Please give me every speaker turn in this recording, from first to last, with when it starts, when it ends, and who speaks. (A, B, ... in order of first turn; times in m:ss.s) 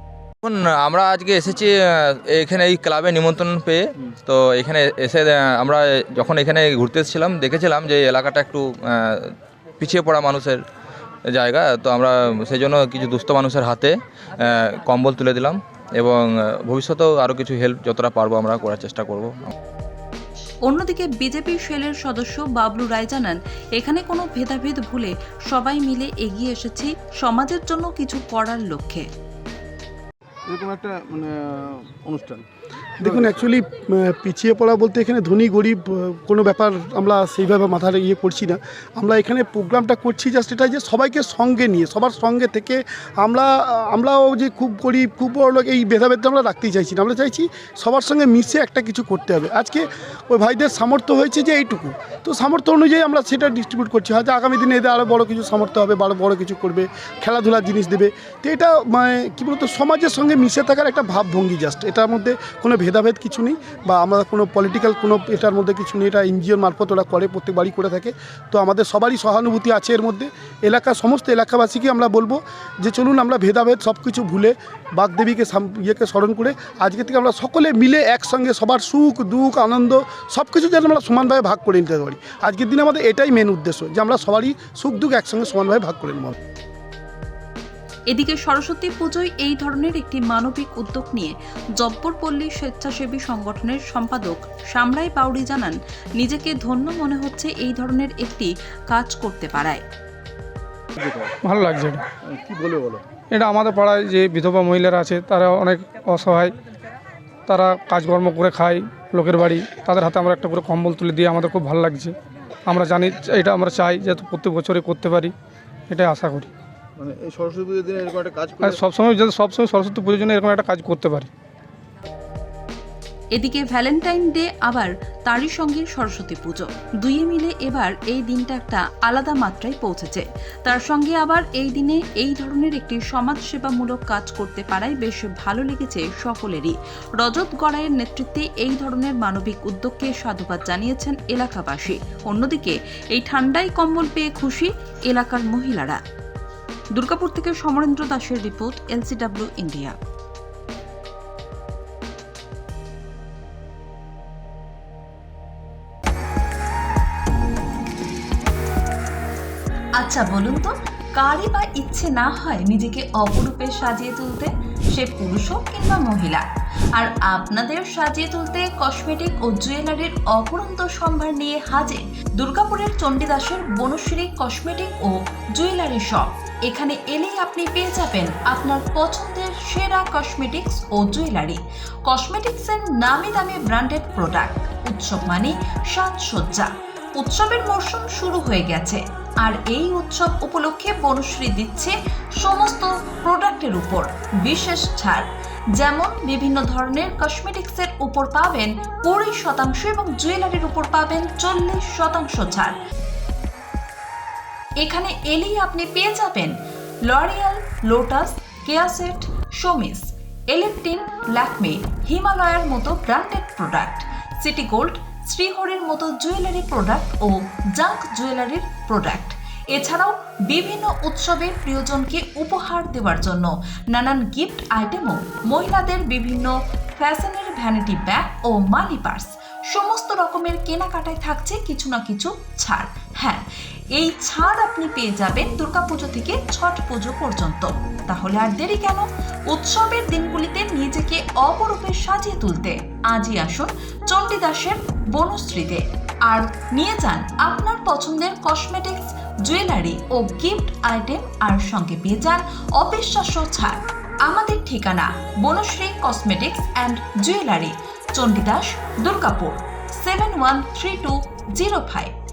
0:00.4-0:09.3 A
0:09.8-0:10.6 A
0:11.3-0:19.5 A
0:20.7-0:29.1 B
0:30.5-0:32.5 C
0:33.0-1:26.4 D
0:33.0-0:33.5 C
1:28.1-1:39.8 B
1:41.0-1:41.3 C
1:41.4-1:42.0 E
1:42.2-1:43.0 C
1:43.3-1:46.6 E
1:47.5-1:52.2 E
1:52.7-1:55.3 E
1:55.9-1:56.5 E
1:57.0-1:58.8 C
1:58.6-2:01.3 E
2:03.4-2:26.0 B
2:27.0-2:30.0 B
2:40.0-2:46.5 B
2:47.0-3:15.3 B
3:15.8-3:22.8 B
3:24.8-3:26.5 B
3:27.1-3:53.4 B
3:54.0-4:22.1 B